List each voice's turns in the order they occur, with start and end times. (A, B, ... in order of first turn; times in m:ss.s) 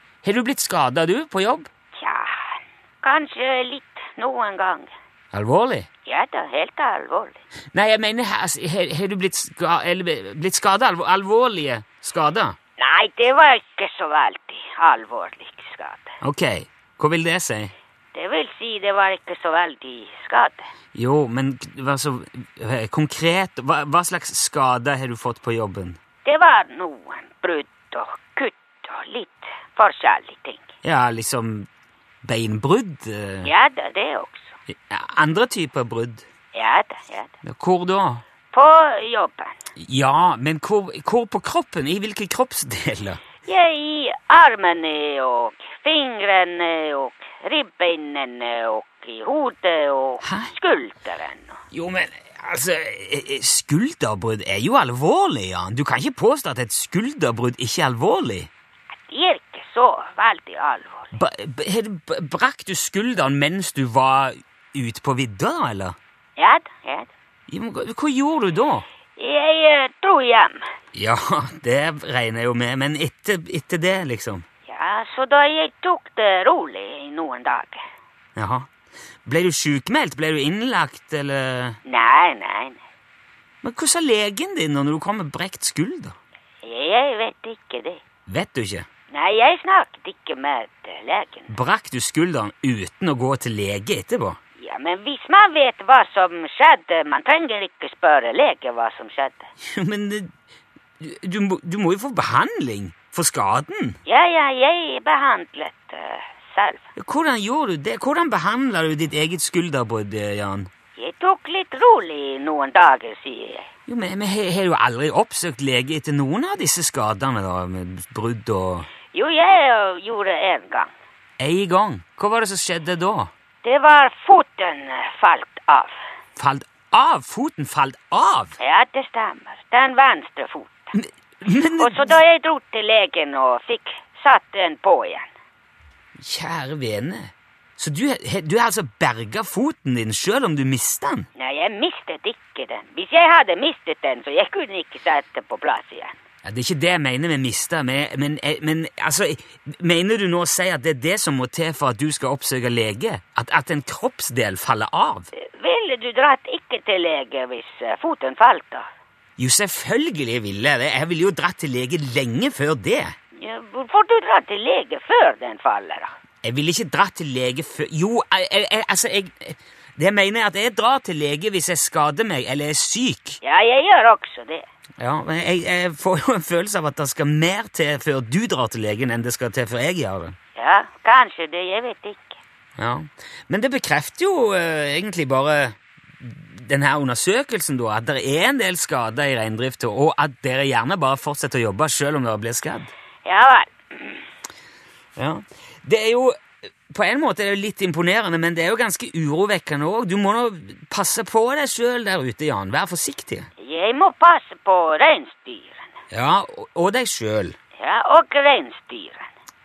0:00.2-0:01.7 A
0:02.0-0:04.9 B
0:05.3-0:05.9 A
0:06.1-0:07.4 B
0:07.7-0:12.6 A
0:12.8-0:16.1 B
0:16.2-0:17.7 A
0:18.1-0:20.7 B
0:21.0-0:26.0 A
0:26.2-0:30.7 B
0:30.8-0:31.7 A
0:32.2-0:33.5 A
0:33.4-0:34.6 B
0:34.7-0:36.2 A
0:36.5-0:37.3 B
0:37.4-0:38.2 A
0:38.5-0:39.6 B
0:39.8-0:43.2 A
0:43.4-0:51.6 B
0:50.2-0:50.5 A
0:51.7-0:58.5 A
0:59.1-1:01.2 B
1:01.2-1:06.0 A
1:06.4-1:07.1 B
1:07.5-1:08.9 A
1:09.2-1:10.6 B
1:10.9-1:14.4 A
1:14.7-1:17.8 B
1:18.4-1:18.7 A
1:19.3-1:21.8 A
1:21.8-1:22.8 B
1:23.6-1:26.2 A
1:26.6-1:28.0 B
1:28.3-1:28.9 A
1:29.1-1:31.5 B
1:31.5-1:34.4 A
1:34.6-1:39.5 B
1:39.6-1:40.3 A
1:41.0-1:44.0 A
1:44.1-1:46.9 B
1:47.0-1:50.7 A
1:51.0-1:53.7 B
1:53.9-1:58.9 A
1:59.1-2:00.9 B
2:01.4-2:03.3 A
2:03.6-2:06.0 B
2:06.4-2:08.6 A
2:08.6-2:10.9 B
2:11.0-2:12.2 A
2:11.8-2:15.3 B
2:16.2-2:21.3 A
2:21.4-2:26.1 B
2:26.4-2:35.3 A
2:35.4-2:38.9 B
2:39.4-2:43.2 A
2:43.4-2:46.1 B
2:46.4-2:53.4 A
2:53.4-2:54.6 B
2:55.0-3:00.4 A
3:00.6-3:02.4 B
3:02.8-3:12.9 A
3:13.2-3:14.2 B
3:15.2-3:23.5 A
3:23.6-3:25.9 B
3:26.1-3:27.6 A
3:27.8-3:29.3 B